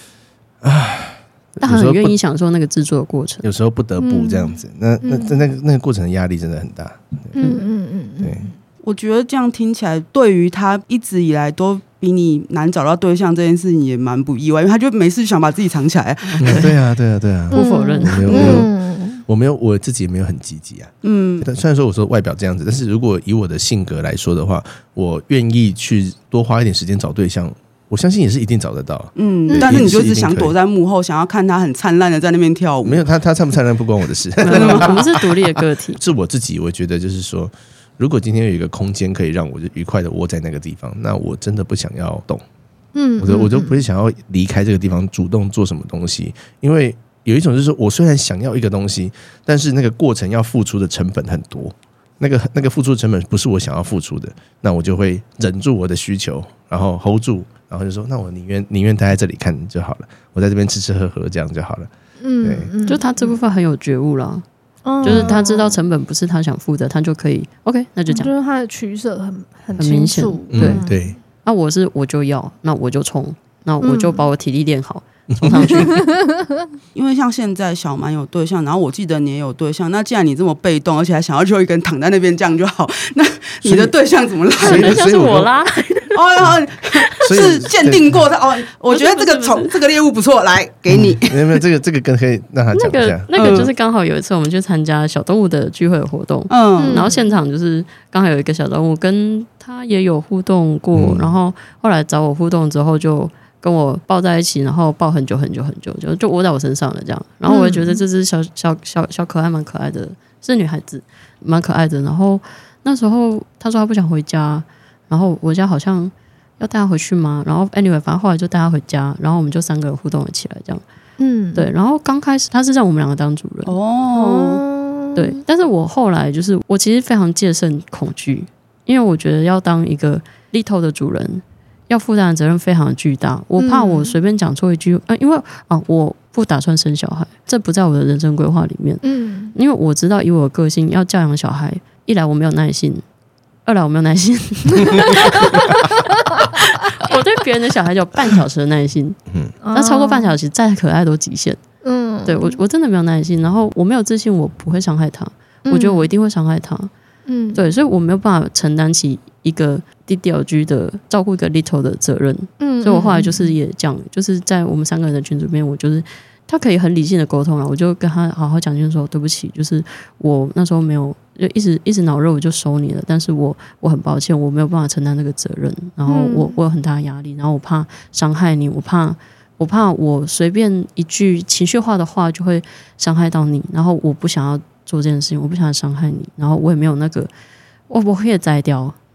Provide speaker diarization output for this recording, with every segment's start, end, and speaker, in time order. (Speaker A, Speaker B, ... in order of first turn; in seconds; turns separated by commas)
Speaker A: 0.6-2.1, Speaker B: 1.6-3.5, Speaker A: 3.4-7.4, Speaker C: 4.0-5.4, Speaker C: 7.3-8.5, Speaker B: 7.4-7.6, Speaker A: 8.2-8.5, Speaker D: 8.8-16.7, Speaker B: 16.4-16.7, Speaker A: 16.4-18.7, Speaker B: 17.5-18.6, Speaker C: 17.5-19.2, Speaker A: 19.2-30.5, Speaker D: 21.0-21.5, Speaker D: 29.1-33.0, Speaker C: 29.5-29.9, Speaker A: 32.8-35.3, Speaker B: 34.4-36.0, Speaker D: 34.5-35.0, Speaker A: 36.0-42.4, Speaker C: 42.9-43.8, Speaker A: 43.2-61.9, Speaker C: 62.2-63.4, Speaker A: 62.4-62.7, Speaker B: 62.9-64.4, Speaker C: 64.8-65.8, Speaker B: 65.0-68.3, Speaker A: 65.0-65.3, Speaker C: 68.1-71.2, Speaker B: 69.8-70.8, Speaker A: 70.5-71.2, Speaker B: 71.4-76.0, Speaker C: 73.8-74.2, Speaker A: 75.4-75.7, Speaker C: 75.5-76.4, Speaker D: 76.9-85.0, Speaker A: 83.6-83.9, Speaker A: 84.6-85.5, Speaker B: 84.6-86.2, Speaker D: 86.1-91.6, Speaker A: 87.2-88.2, Speaker B: 88.9-89.7, Speaker A: 90.9-93.7, Speaker B: 92.7-120.8, Speaker D: 93.3-93.7, Speaker D: 96.5-97.1, Speaker C: 96.8-97.3, Speaker A: 100.9-101.3, Speaker C: 107.5-108.0, Speaker C: 121.2-121.7, Speaker B: 121.5-123.7, Speaker D: 123.7-124.6, Speaker C: 124.1-125.4, Speaker B: 125.2-139.0, Speaker C: 133.6-134.2, Speaker C: 139.0-139.5, Speaker B: 139.5-143.0, Speaker B: 143.7-149.2, Speaker C: 149.6-150.3, Speaker B: 149.7-151.6, Speaker C: 151.8-152.6, Speaker B: 152.2-156.9, Speaker C: 155.7-156.1, Speaker C: 157.2-157.7, Speaker B: 157.5-187.3, Speaker C: 162.6-163.5, Speaker C: 176.1-176.6, Speaker B: 187.9-188.9